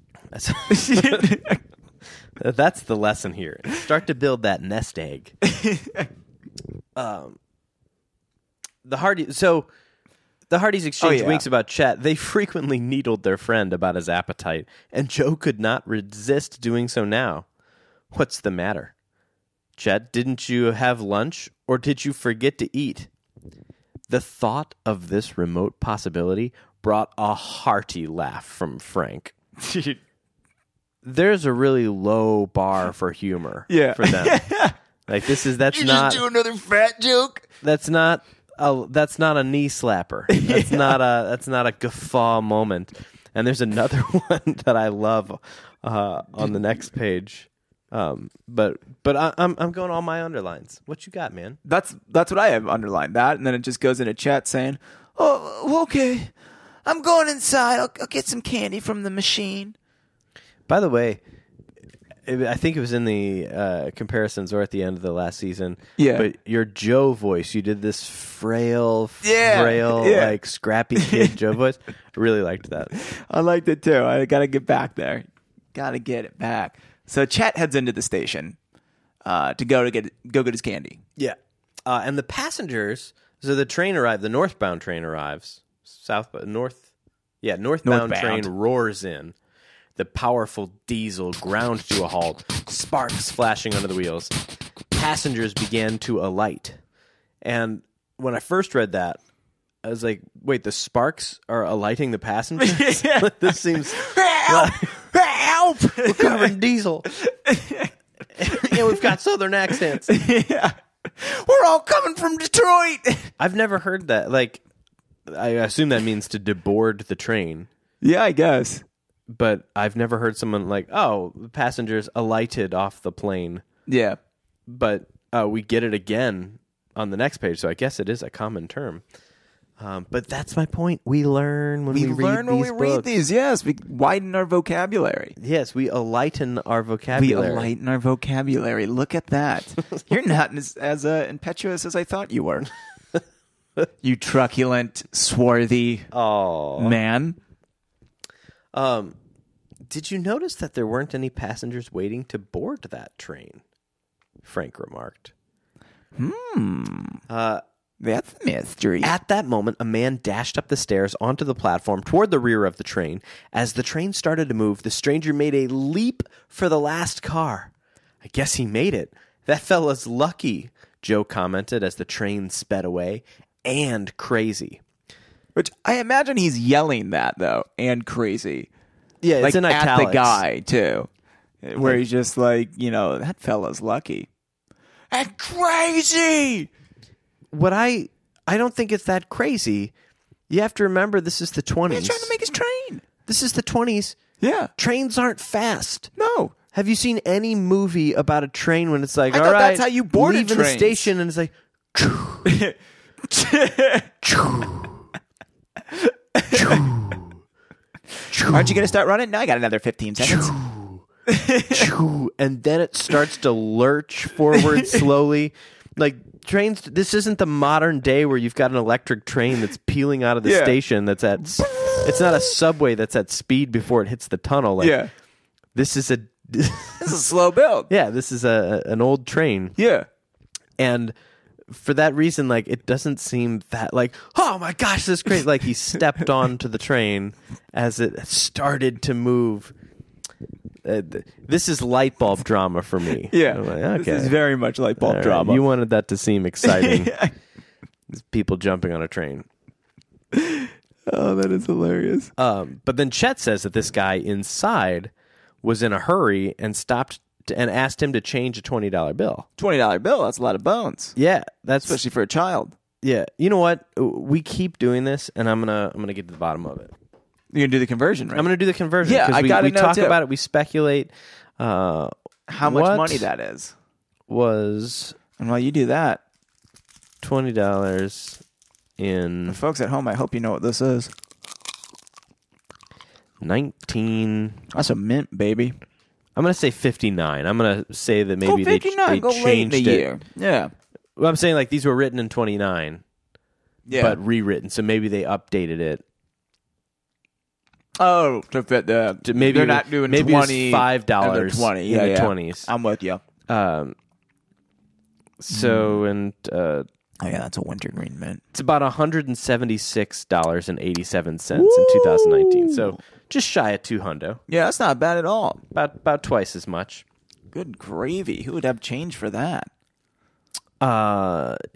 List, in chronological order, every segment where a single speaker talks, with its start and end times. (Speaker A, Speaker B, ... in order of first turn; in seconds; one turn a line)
Speaker A: 0.3-1.3
Speaker B: 0.7-1.6
Speaker A: 2.4-5.3
Speaker B: 5.4-6.1
Speaker A: 7.0-7.4
Speaker A: 8.8-9.7
Speaker A: 10.5-17.4
Speaker B: 11.0-11.4
Speaker A: 18.1-18.9
Speaker A: 19.8-23.1
Speaker A: 24.1-29.3
Speaker B: 29.7-30.0
Speaker A: 31.0-34.4
Speaker B: 33.7-34.8
Speaker A: 35.1-36.2
Speaker B: 35.3-37.5
Speaker A: 37.6-51.6
Speaker B: 40.3-41.0
Speaker B: 51.6-56.3
Speaker B: 56.9-59.7
Speaker A: 60.7-61.2
Speaker A: 62.2-72.9
Speaker B: 66.0-66.3
Speaker B: 69.2-70.3
Speaker B: 71.0-71.3
Speaker B: 73.0-78.6
Speaker B: 79.2-81.0
Speaker A: 81.2-86.8
Speaker A: 87.4-89.3
Speaker B: 87.8-88.5
Speaker A: 90.0-94.3
Speaker A: 94.9-96.8
Speaker A: 97.4-99.2
Speaker A: 99.8-104.9
Speaker B: 102.6-106.5
Speaker A: 105.8-107.1
Speaker B: 107.1-107.9
Speaker A: 108.4-110.1
Speaker B: 108.4-109.0
Speaker B: 109.9-113.3
Speaker A: 113.4-114.6
Speaker A: 115.3-117.7
Speaker B: 118.0-118.8
Speaker A: 119.3-123.6
Speaker B: 123.9-124.2
Speaker A: 124.7-129.0
Speaker A: 129.8-133.1
Speaker B: 131.9-135.3
Speaker A: 135.4-137.7
Speaker B: 137.1-142.7
Speaker B: 144.0-146.1
Speaker A: 146.1-147.0
Speaker B: 146.8-147.4
Speaker A: 148.7-149.2
Speaker A: 149.9-153.6
Speaker A: 154.4-155.3
Speaker B: 156.2-157.2
Speaker A: 157.3-157.6
Speaker B: 158.0-159.1
Speaker A: 159.0-167.7
Speaker A: 168.2-174.8
Speaker B: 175.5-178.7
Speaker A: 179.2-180.4
Speaker B: 179.4-181.1
Speaker B: 181.6-184.3
Speaker B: 185.1-186.7
Speaker A: 187.5-189.9
Speaker A: 190.5-192.3
Speaker B: 191.9-193.0
Speaker A: 193.2-194.2
Speaker B: 194.4-194.7
Speaker A: 194.8-196.1
Speaker B: 196.2-196.5
Speaker A: 196.7-202.5
Speaker B: 199.3-201.1
Speaker B: 202.4-202.7
Speaker B: 203.3-204.1
Speaker A: 204.2-204.9
Speaker B: 205.9-206.9
Speaker A: 206.5-207.3
Speaker A: 208.3-208.7
Speaker B: 208.4-210.6
Speaker A: 210.2-211.0
Speaker B: 211.3-211.9
Speaker A: 211.7-225.0
Speaker B: 214.5-215.0
Speaker B: 220.4-220.8
Speaker B: 221.6-222.5
Speaker B: 224.8-225.1
Speaker A: 225.7-227.2
Speaker B: 227.0-227.9
Speaker A: 227.9-229.7
Speaker B: 229.8-230.1
Speaker A: 230.8-231.1
Speaker A: 231.7-239.7
Speaker A: 240.8-244.3
Speaker B: 243.3-245.6
Speaker A: 245.0-247.2
Speaker B: 246.6-247.3
Speaker A: 248.1-249.4
Speaker B: 250.3-252.3
Speaker A: 252.4-255.1
Speaker A: 255.6-259.4
Speaker B: 259.6-261.1
Speaker A: 261.1-262.0
Speaker B: 261.8-262.7
Speaker A: 263.0-266.9
Speaker B: 267.5-268.5
Speaker A: 268.3-272.1
Speaker B: 269.0-270.2
Speaker B: 272.5-273.7
Speaker A: 272.6-273.2
Speaker A: 274.3-275.2
Speaker B: 275.4-276.2
Speaker A: 277.2-278.4
Speaker A: 279.0-279.6
Speaker B: 279.5-281.1
Speaker A: 283.4-284.6
Speaker B: 284.7-285.7
Speaker A: 286.4-290.1
Speaker B: 288.4-290.7
Speaker A: 291.2-293.0
Speaker B: 293.9-294.2
Speaker A: 293.9-296.0
Speaker B: 298.0-303.2
Speaker A: 299.2-302.7
Speaker A: 303.5-303.9
Speaker A: 305.4-306.8
Speaker B: 305.5-306.0
Speaker B: 307.2-308.4
Speaker A: 308.5-314.4
Speaker B: 311.5-313.0
Speaker B: 314.5-315.6
Speaker A: 315.7-317.0
Speaker B: 317.5-319.7
Speaker A: 320.8-321.6